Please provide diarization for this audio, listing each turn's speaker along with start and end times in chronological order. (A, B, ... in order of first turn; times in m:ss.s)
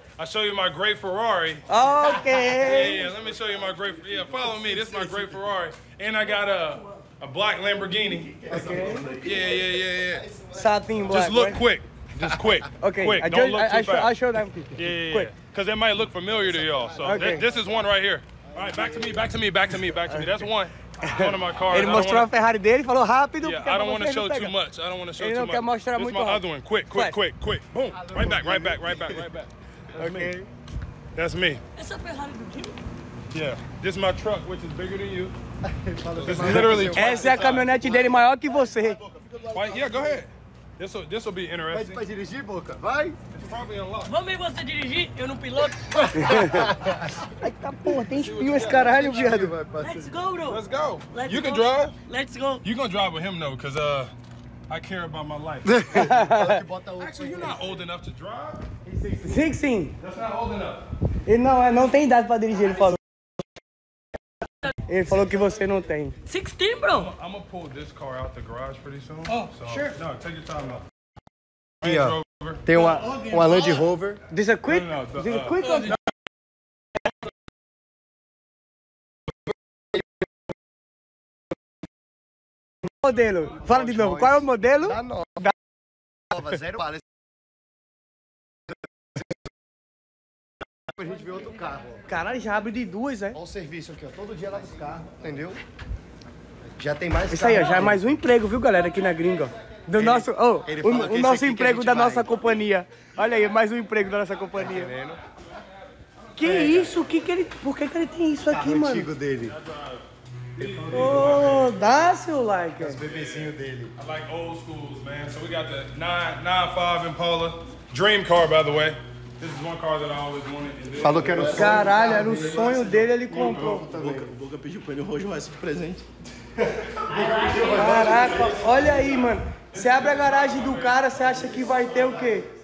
0:00.2-0:01.6 A
0:01.7-0:03.0 B
0:02.3-0:05.4 C
0:02.6-0:10.3 A
0:07.7-0:11.2 C
0:08.5-0:09.0 B
0:10.5-0:11.6 B
0:11.1-0:14.2 A
0:12.8-0:15.3 B
0:14.7-0:22.3 A
0:16.2-0:19.4 C
0:17.0-0:17.5 B
0:21.0-0:24.5 B
0:23.4-0:29.5 A
0:25.2-0:27.2 B
0:27.9-0:29.1 D
0:30.0-0:30.5 B
0:30.0-0:30.4 D
0:31.2-0:31.6 A
0:31.8-0:32.8 E
0:33.3-0:35.4 A
0:35.6-0:37.4 D
0:36.2-0:37.7 A
0:36.4-0:39.0 B
0:37.0-0:40.2 C
0:39.5-0:42.0 A
0:41.7-0:43.2 D
0:43.3-0:44.2 A
0:44.1-0:46.4 E
0:46.2-0:46.7 B
0:46.2-0:47.2 D
0:47.3-0:49.6 B
0:48.1-0:49.3 A
0:48.5-0:50.2 D
0:49.8-0:52.6 E
0:50.5-0:52.0 A
0:52.6-0:54.1 A
0:54.7-0:56.2 A
0:55.7-0:57.8 D
0:55.9-0:56.6 B
0:57.0-0:58.6 A
0:58.8-0:59.5 D
0:59.2-0:59.9 B
1:00.0-1:00.9 A
1:01.3-1:03.0 B
1:04.9-1:06.2 B
1:06.3-1:07.1 E
1:06.9-1:10.9 A
1:09.3-1:09.9 B
1:11.8-1:12.6 A
1:11.8-1:14.2 D
1:14.3-1:16.0 B
1:14.7-1:15.7 A
1:23.0-1:25.5 B
1:23.6-1:25.5 D
1:26.3-1:27.0 D
1:30.9-1:32.0 D
1:32.1-1:33.4 B
1:33.3-1:35.6 D
1:34.6-1:35.2 C
1:36.8-1:38.1 D
1:37.3-1:44.9 B
1:40.0-1:42.4 D
1:40.7-1:41.3 C
1:44.6-1:45.2 D
1:45.6-1:47.0 A
1:46.4-1:49.1 B
1:46.4-1:46.9 D
1:48.5-1:49.6 D
1:49.4-1:51.8 A
1:50.6-1:51.7 D
1:50.9-1:53.0 B
1:52.8-1:54.0 D
1:53.0-2:03.1 A
2:01.0-2:04.3 D
2:01.4-2:01.8 C
2:01.4-2:03.9 B
2:03.4-2:06.1 C
2:06.8-2:08.7 D
2:07.1-2:08.6 E
2:07.2-2:09.4 C
2:07.6-2:12.5 B
2:09.6-2:11.8 A
2:11.7-2:12.4 C
2:11.8-2:12.2 D